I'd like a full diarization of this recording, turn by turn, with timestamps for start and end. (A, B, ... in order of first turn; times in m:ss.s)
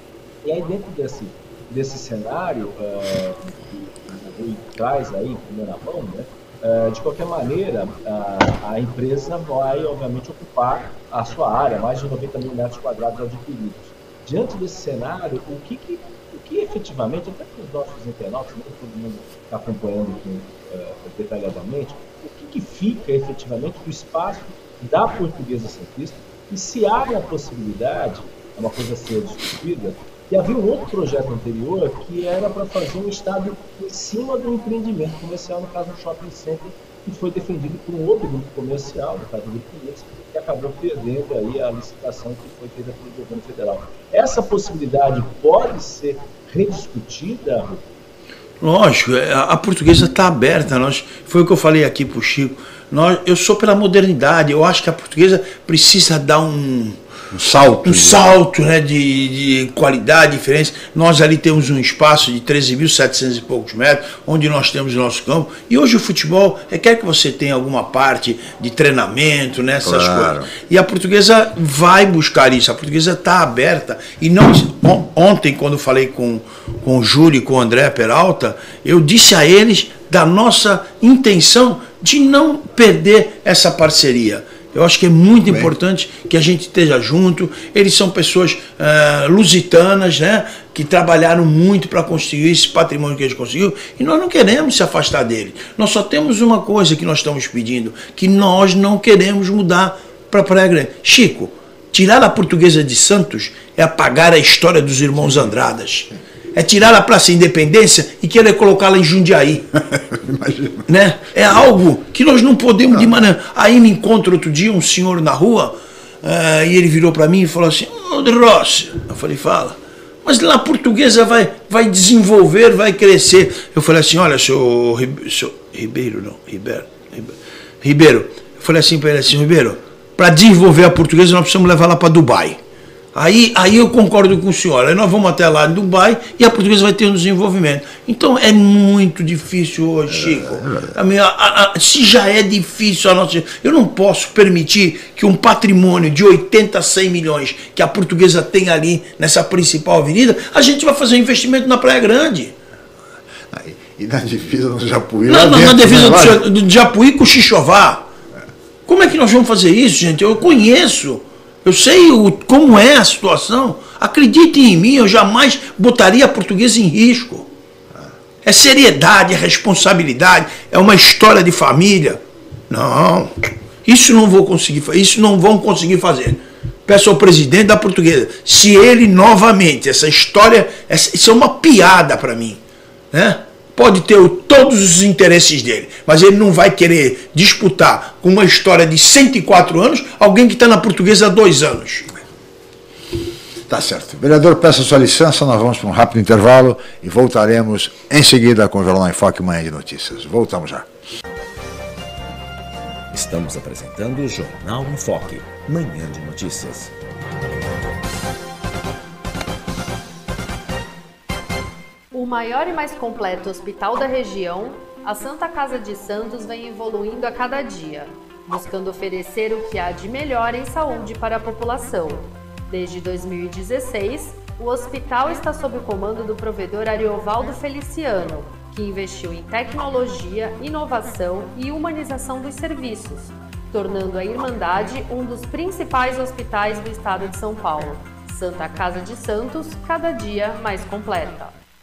0:00.4-0:47.9 A
0:48.6-0:57.0 B
0:57.3-0:58.3 C
0:57.8-1:49.7 B
1:09.8-1:10.5 C
1:25.5-1:25.7 C
1:45.2-1:45.5 C
1:49.7-1:50.9 C
1:50.9-2:12.6 B
1:52.9-1:53.2 C
2:13.1-2:32.5 B
2:20.1-2:21.0 C
2:33.5-2:36.4 C
2:35.3-2:38.1 B
2:38.9-2:47.5 B
2:48.4-3:02.6 B
3:03.1-3:12.1 B
3:13.7-3:20.9 C
3:23.1-3:26.9 D
3:32.1-4:01.5 E